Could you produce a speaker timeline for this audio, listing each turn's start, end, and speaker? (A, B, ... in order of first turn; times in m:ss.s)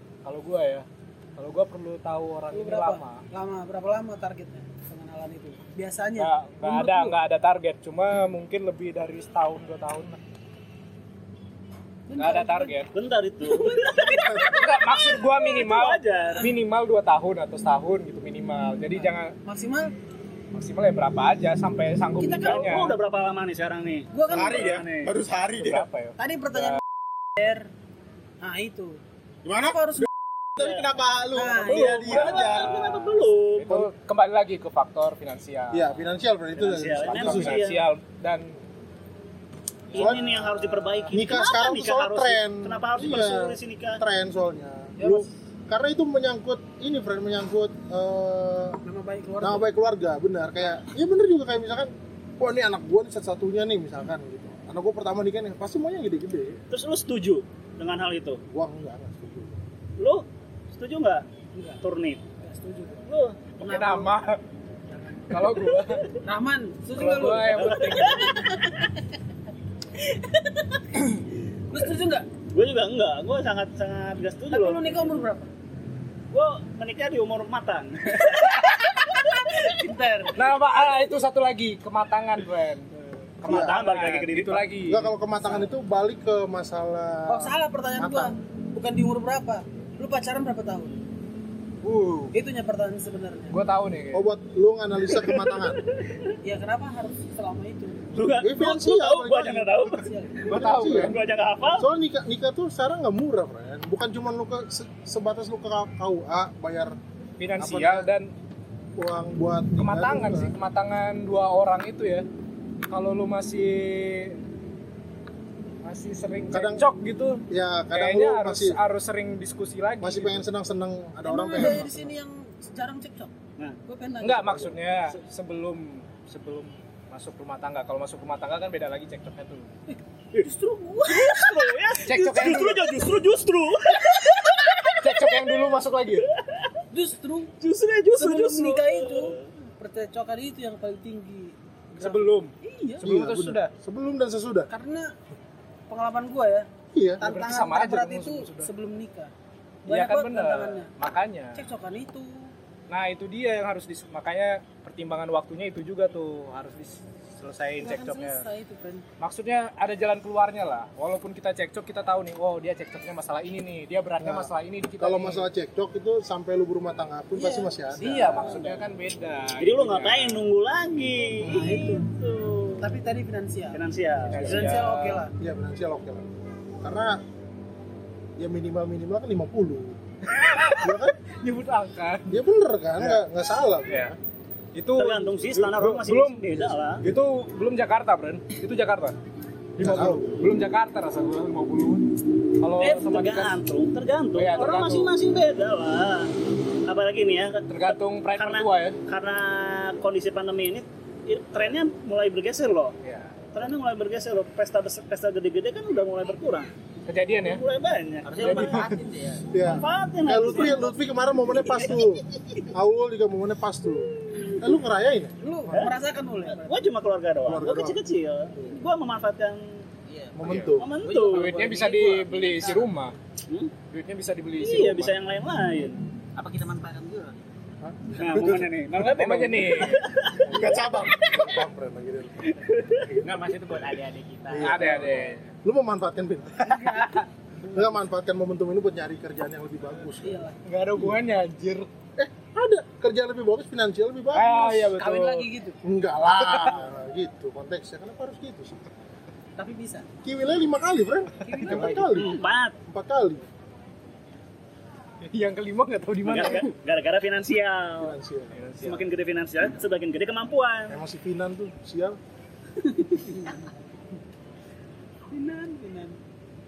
0:00.2-0:03.2 A
0:02.5-0:07.2 B
0:06.2-0:10.2 A
0:12.1-0:12.8 B
0:12.2-0:12.9 A
0:12.9-0:16.5 C
0:14.0-0:14.5 D
0:14.5-0:19.3 A
0:19.4-0:19.9 B
0:20.5-0:23.0 A
0:22.2-0:22.8 B
0:22.3-0:25.1 C
0:24.1-0:24.7 B
0:24.3-0:25.8 E
0:25.5-0:26.8 A
0:26.2-0:26.8 B
0:27.4-0:27.7 B
0:28.4-0:29.0 B
0:29.4-0:29.8 E
0:29.5-0:30.1 B
0:30.6-0:32.8 E
0:30.6-0:30.9 C
0:31.3-0:32.2 B
0:31.6-0:33.7 C
0:32.1-0:36.0 A
0:35.7-0:37.7 D
0:36.6-0:37.9 C
0:37.0-0:38.6 A
0:39.9-0:41.2 A
0:39.9-0:44.0 C
0:39.9-0:40.3 D
0:41.1-0:48.8 D
0:45.0-0:45.3 B
0:48.8-0:49.7 B
0:49.4-0:56.6 D
0:56.7-0:58.4 C
0:58.5-0:59.6 D
1:00.0-1:01.2 C
1:01.5-1:01.8 B
1:01.8-1:02.2 C
1:02.4-1:03.0 B
1:03.1-1:03.5 C
1:03.6-1:04.1 B
1:03.6-1:04.4 A
1:04.9-1:05.6 B
1:05.3-1:06.1 A
1:06.1-1:09.0 B
1:07.0-1:08.6 A
1:07.0-1:08.3 C
1:10.0-1:12.3 B
1:12.5-1:15.2 C
1:14.5-1:15.5 B
1:16.3-1:19.5 C
1:18.3-1:18.8 A
1:19.5-1:20.5 B
1:20.3-1:25.1 A
1:23.4-1:24.7 C
1:23.5-1:23.8 D
1:24.8-1:28.3 D
1:25.4-1:25.7 B
1:27.3-1:30.9 B
1:31.8-1:32.3 A
1:32.3-1:33.6 B
1:33.5-1:34.3 A
1:34.1-1:35.8 D
1:35.2-1:36.1 C
1:36.4-1:38.1 B
1:38.1-1:41.9 C
1:38.4-1:39.9 D
1:39.8-1:40.7 B
1:40.5-1:41.2 A
1:40.5-1:47.0 D
1:47.4-1:48.3 A
1:47.6-1:48.1 D
1:49.0-1:50.5 D
1:49.8-1:52.2 A
1:52.9-1:54.4 A
1:55.8-2:00.4 A
1:56.5-1:56.9 D
1:57.5-1:58.8 D
2:00.0-2:02.0 D
2:01.2-2:03.3 B
2:01.6-2:01.9 A
2:03.8-2:04.8 B
2:04.2-2:09.7 A
2:09.9-2:11.7 B
2:11.0-2:15.5 C
2:12.0-2:12.9 A
2:15.0-2:16.3 A
2:16.2-2:16.7 C
2:16.9-2:17.5 B
2:17.6-2:19.5 C
2:18.2-2:23.0 B
2:22.0-2:23.7 A
2:23.0-2:24.7 D
2:24.7-2:25.1 B
2:25.9-2:26.6 B
2:26.9-2:27.2 D
2:27.2-2:29.3 B
2:27.2-2:28.7 A
2:29.8-2:30.9 B
2:29.9-2:31.6 A
2:31.5-2:32.5 B
2:32.9-2:38.4 A
2:37.8-2:39.0 B
2:39.2-2:45.5 A
2:44.2-2:48.4 D
2:47.3-2:48.8 B
2:48.0-2:50.4 A
2:49.6-2:52.9 C
2:51.4-2:52.1 B
2:51.4-2:51.7 D
2:52.8-2:55.3 B
2:53.7-2:54.7 C
2:54.3-2:55.3 A
2:55.4-2:56.2 D
2:56.8-2:57.2 D
2:58.4-3:00.0 D
3:00.3-3:02.3 A
3:00.8-3:01.2 D
3:02.3-3:04.2 D
3:03.0-3:03.2 A
3:03.9-3:04.1 A
3:04.7-3:09.2 A
3:05.0-3:07.0 C
3:09.8-3:13.7 A
3:09.8-3:10.3 D
3:12.8-3:23.0 C
3:14.3-3:15.1 A
3:17.7-3:19.0 A
3:23.0-3:23.4 A
3:23.5-3:26.7 C
3:27.1-3:27.6 A
3:27.4-3:28.9 C
3:28.2-3:29.5 F
3:28.4-3:29.0 A
3:29.5-3:35.9 D
3:29.6-3:30.9 C
3:31.5-3:32.0 C
3:34.2-3:34.6 C
3:35.4-3:36.9 B
3:36.5-3:39.7 C
3:37.4-3:38.0 D
3:40.1-3:42.9 F
3:40.3-3:40.9 D
3:40.5-3:43.2 A
3:40.8-3:41.6 C
3:43.8-3:45.2 A
3:44.6-3:46.0 C
3:46.4-3:47.4 F
3:47.8-3:48.7 D
3:48.2-3:50.5 C
3:48.3-3:48.6 F
3:48.9-3:50.1 A
3:50.5-3:51.3 E
3:50.5-3:52.5 D
3:52.5-3:53.2 C
3:53.1-3:55.3 F
3:54.5-3:56.7 D
3:54.6-3:55.5 A
3:56.6-3:57.3 B
3:56.6-3:57.2 A
3:57.7-4:00.5 D
4:00.2-4:00.6 B
4:00.6-4:01.9 A
4:02.2-4:04.9 D
4:04.3-4:05.5 A
4:04.7-4:05.8 B
4:05.8-4:08.8 D
4:06.3-4:06.8 A
4:09.6-4:10.1 B
4:10.2-4:13.5 D
4:11.4-4:12.4 B
4:11.6-4:12.0 A
4:12.1-4:12.7 C
4:15.2-4:16.7 A
4:16.2-4:18.2 C
4:18.0-4:18.6 D
4:18.5-4:19.1 A
4:18.8-4:21.0 C
4:20.9-4:22.2 D
4:22.8-4:23.7 B
4:25.3-4:26.2 B